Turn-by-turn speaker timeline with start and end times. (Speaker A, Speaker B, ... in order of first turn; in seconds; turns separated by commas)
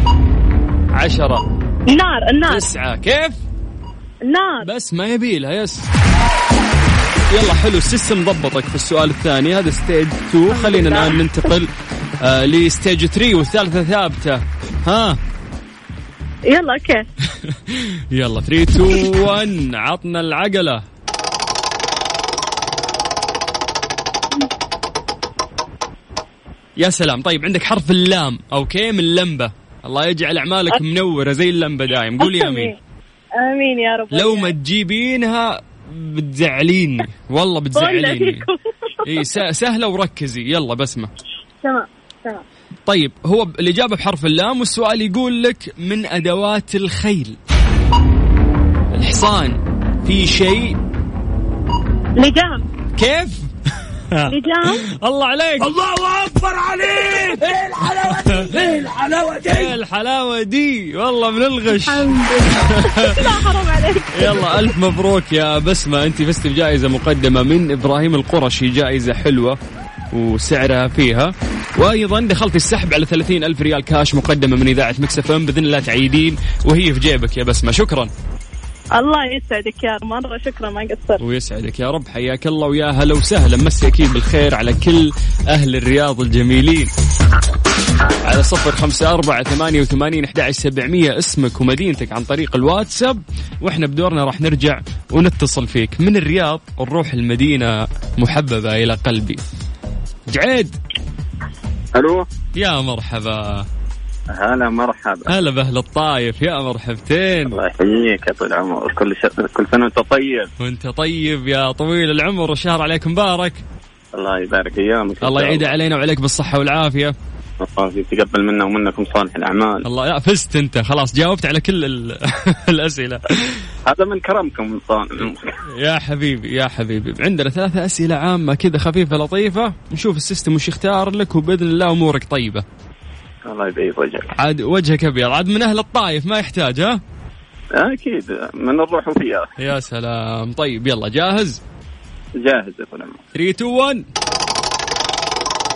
Speaker A: 0.9-1.4, Speaker B: 1.9-2.7, Speaker A: 2.5-3.4, Speaker B: 4.3-4.7, Speaker A: 4.6-5.9, Speaker A: 7.3-15.2, Speaker B: 10.5-11.2, Speaker B: 16.5-17.0, Speaker A: 17.3-20.8, Speaker A: 26.8-32.7, Speaker B: 32.2-32.8, Speaker B: 33.4-34.5, Speaker A: 34.1-38.5, Speaker B: 37.7-39.3, Speaker A: 39.0-41.1, Speaker B: 41.6-42.4, Speaker A: 42.9-47.4, Speaker A: 48.9-50.8, Speaker B: 52.2-52.6, Speaker A: 53.0-53.5, Speaker A: 54.1-55.7, Speaker B: 54.3-54.8, Speaker C: 55.6-59.7, Speaker A: 58.0-58.5, Speaker A: 59.5-63.4, Speaker B: 61.7-64.7, Speaker A: 64.1-69.6, Speaker A: 70.1-78.1, Speaker B: 79.0-81.2, Speaker A: 81.2-86.9, Speaker A: 88.2-99.4, Speaker A: 100.3-100.7, Speaker D: 102.0-102.2, Speaker A: 102.5-103.7, Speaker D: 104.3-105.3, Speaker A: 105.3-107.6, Speaker D: 107.5-110.5, Speaker A: 110.6-113.6, Speaker D: 114.2-115.7, Speaker A: 115.2-117.2, Speaker D: 117.6-119.8, Speaker A: 119.8-123.6, Speaker D: 123.9-125.4, Speaker A: 125.7-132.6, Speaker D: 133.5-134.3, Speaker A: 134.3-137.0, Speaker D: 137.8-139.5, Speaker A: 139.6-141.6, Speaker D: 142.4-143.2, Speaker A: 143.3-144.1